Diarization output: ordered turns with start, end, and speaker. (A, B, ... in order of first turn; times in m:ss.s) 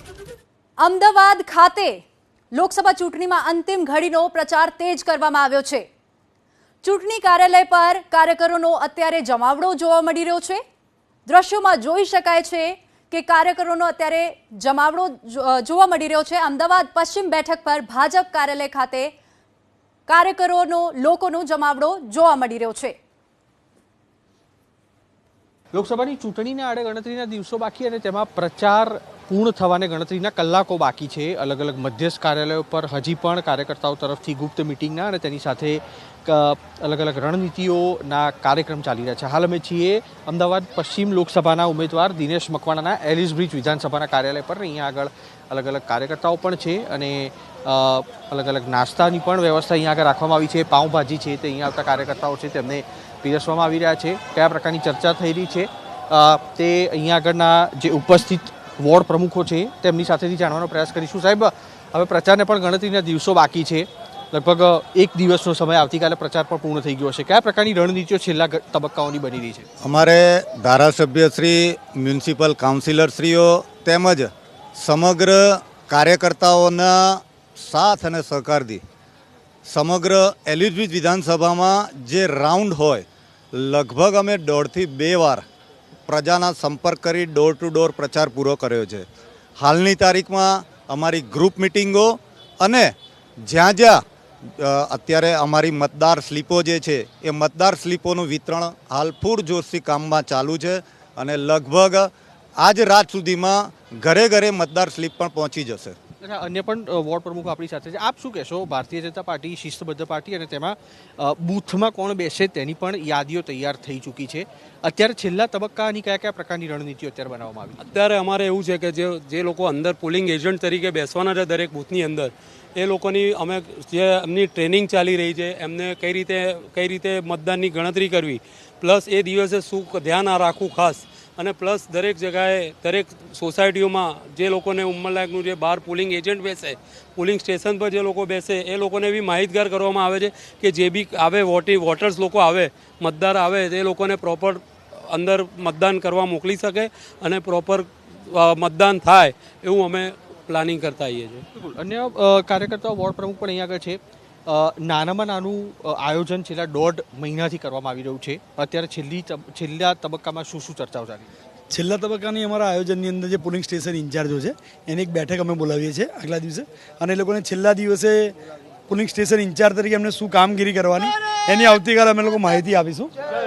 0:00.8-0:02.0 A
0:02.5-0:05.8 A
0:06.8-0:10.6 A
0:11.3-0:19.1 A
0:20.1-0:22.9 A
0:25.7-1:09.6 B
1:09.8-1:18.8 C
1:19.6-1:25.4 C
1:26.1-1:29.1 C
1:29.6-1:32.9 C
1:33.4-1:34.0 C
1:34.6-1:46.0 C
1:46.2-1:57.8 B
1:57.8-2:31.4 D
2:31.5-2:41.3 B
2:41.7-2:48.4 E
2:48.9-2:53.1 E